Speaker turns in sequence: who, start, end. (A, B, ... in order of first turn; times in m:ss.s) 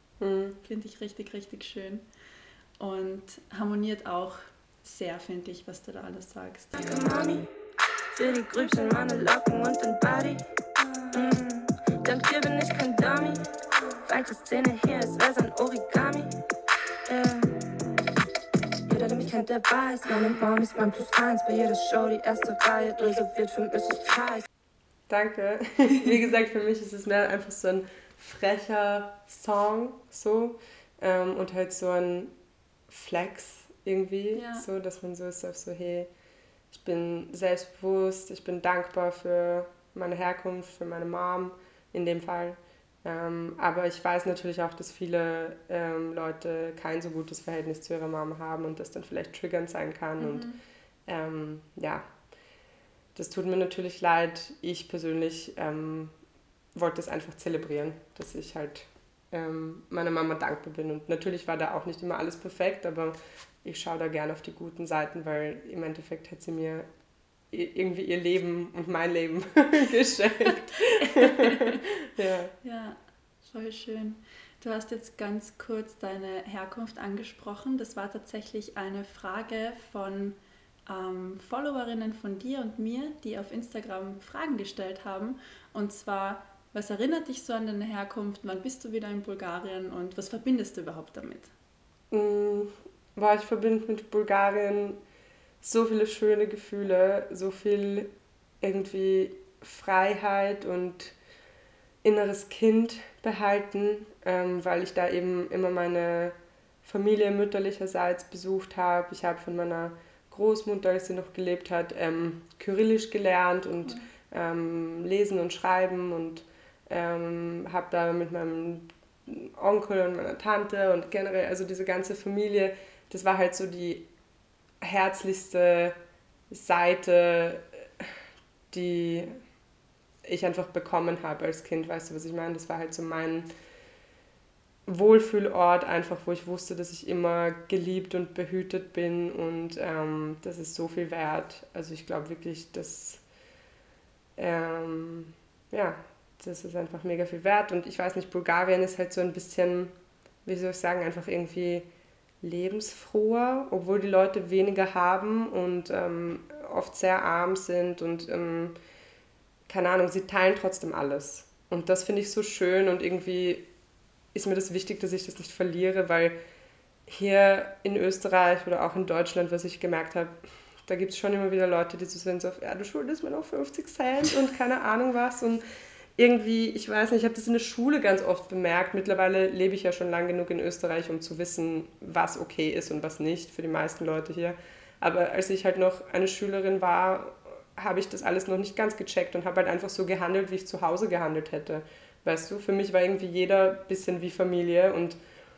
0:00.2-0:00.6 A
0:00.6-0:02.0 B
0:02.8-0:06.8 B
0:06.8-0:07.5 C
0:08.1-0:10.5 C
0:11.0-0:16.3 C
0:17.0-0:17.6 C
0:18.9-0:24.4 C
0:25.1-0:32.3 A
0:32.9-0:36.1 A
0:34.3-0:34.7 B
0:36.7-0:50.5 A
0:50.2-0:50.6 B
0:51.1-0:52.0 A
0:53.1-0:56.1 A
0:56.7-1:06.9 A
1:07.5-1:12.5 A
1:11.0-1:11.8 B
1:12.6-1:31.5 B
1:32.1-1:35.0 A
1:35.6-1:41.1 A
1:42.0-2:04.1 A
2:04.8-2:06.0 A
2:06.5-2:08.1 A
2:08.7-2:09.3 A
2:10.2-2:13.5 A
2:14.8-2:23.2 A
2:24.4-2:29.9 A
2:30.4-2:31.9 A
2:32.4-2:38.8 A
2:39.7-2:43.7 A
2:44.3-2:46.4 A
2:47.1-2:55.6 A
2:56.2-3:15.2 A